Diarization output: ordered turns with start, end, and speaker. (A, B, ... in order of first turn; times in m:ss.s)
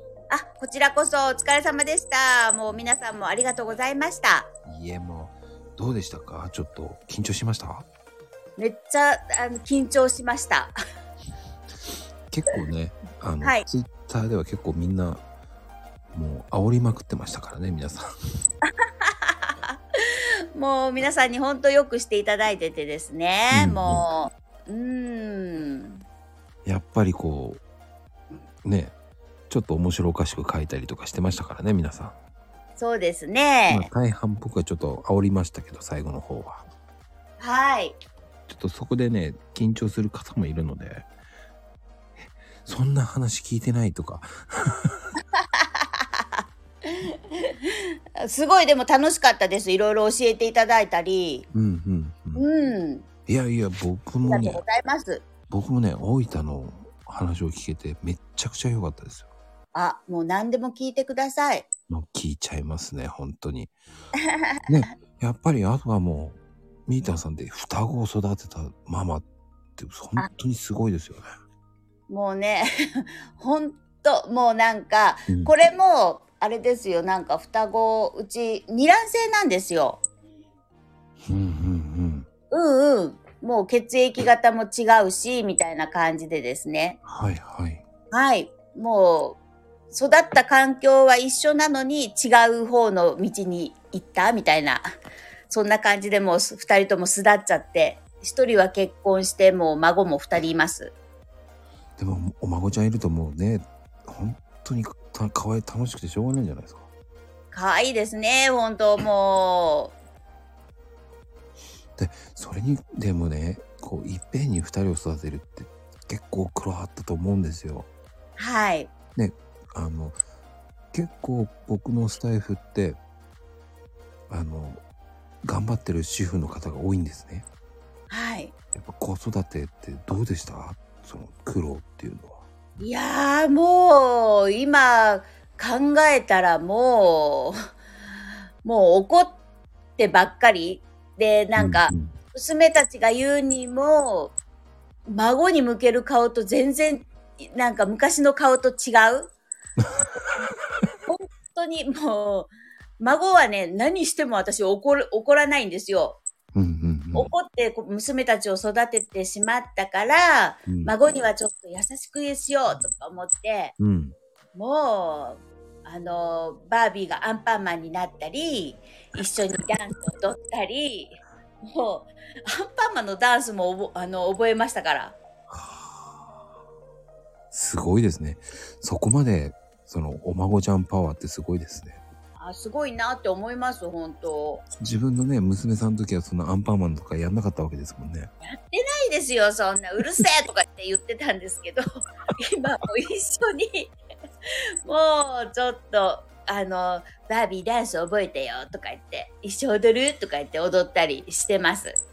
0:00.3-0:04.5 A
0:04.6-0:07.9 B
0:08.6-0:10.7 A
0:12.3-0:15.2 B
0:16.1-0:18.1 B
0:19.0-0:26.0 A
0:23.5-0:24.0 B
0:26.6-0:27.6 B
0:28.6-0:28.9 B
0:29.5-0:32.2 B
0:32.8-0:33.9 A
0:33.7-0:36.7 B
0:37.4-0:38.0 A
0:38.5-0:41.1 B
0:42.2-0:45.1 B
0:45.3-0:51.5 A
0:51.5-0:52.5 B
0:52.4-0:53.1 A
0:53.3-0:54.6 B
0:54.2-0:55.2 A
0:55.5-0:59.3 B
0:59.7-1:01.7 A
1:01.9-1:03.7 B
1:04.2-1:04.6 A
1:04.7-1:09.2 B
1:09.8-1:11.3 B
1:12.1-1:20.0 A
1:21.2-1:22.3 B
1:22.5-1:27.0 A
1:27.0-1:27.8 B
1:28.1-1:29.4 A
1:29.9-1:34.8 A
1:35.5-1:40.9 A
1:42.0-1:46.9 B
1:47.5-1:49.9 A
1:52.0-1:57.9 B
1:58.4-1:58.9 A
1:59.2-2:00.2 B
2:00.9-2:03.0 B
2:04.3-2:04.8 B
2:05.4-2:07.5 B
2:08.1-2:08.5 A
2:08.7-2:12.4 B
2:12.8-2:17.5 A
2:18.6-2:19.4 A
2:20.0-2:24.3 A
2:21.6-2:22.1 B
2:25.1-2:29.3 A
2:31.1-2:36.2 A
2:36.5-2:37.3 B
2:37.1-2:43.7 A
2:40.7-2:40.9 B
2:43.8-2:44.2 B
2:44.5-2:55.2 A
2:55.5-2:56.0 B
2:57.5-3:02.0 B
3:02.4-3:04.6 A
3:04.8-3:08.3 B
3:08.4-3:11.8 A
3:12.4-3:13.9 A
3:14.8-3:22.0 A